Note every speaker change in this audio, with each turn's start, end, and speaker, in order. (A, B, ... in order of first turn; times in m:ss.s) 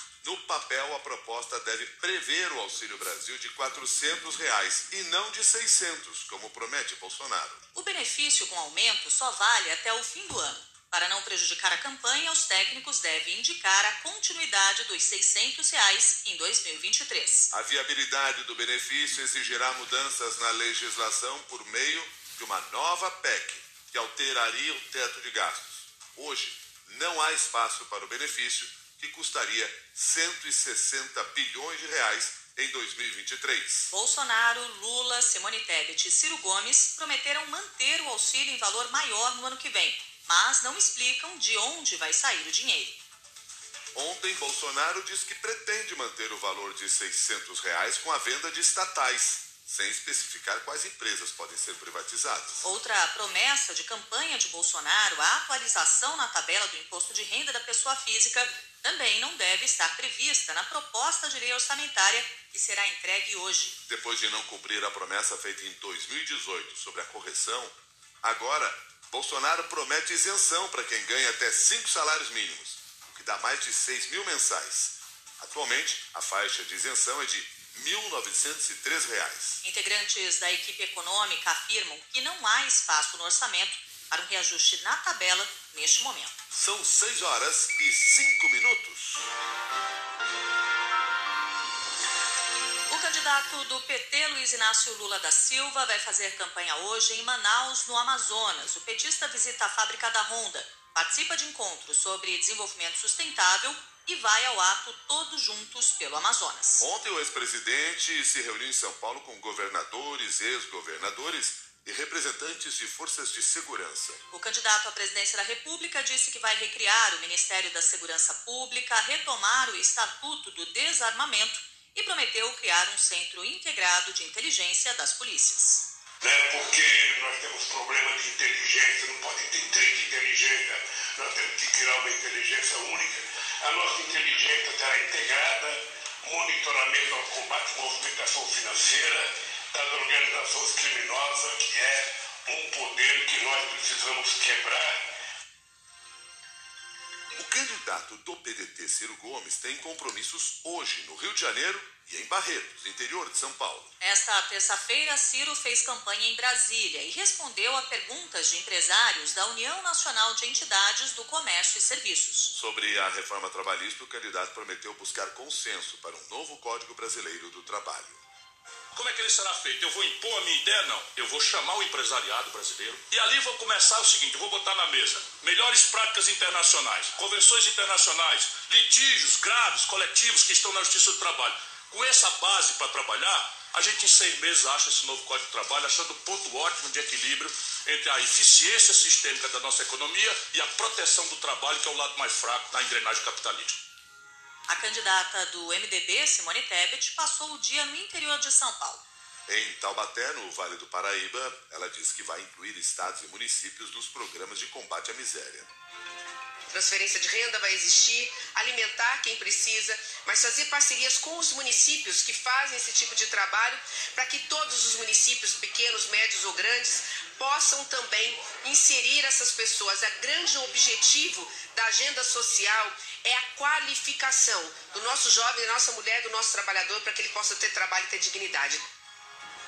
0:00.2-0:07.6 A
0:07.8-0:17.5 B
0:17.5-0:33.9 A
0:33.9-0:43.0 B
0:44.0-0:52.6 A
0:52.6-1:03.8 B
1:03.9-1:19.6 A
1:19.6-1:26.3 B
1:26.5-1:29.3 A
1:32.9-1:46.8 B
1:46.8-1:54.2 A
1:54.3-2:05.8 B
2:06.2-2:25.0 C
2:27.4-2:33.9 A
2:34.0-2:42.5 B
2:42.5-2:48.2 A
2:48.9-3:13.8 D
3:14.7-3:19.0 B
3:19.5-3:25.7 A
3:26.7-3:48.8 E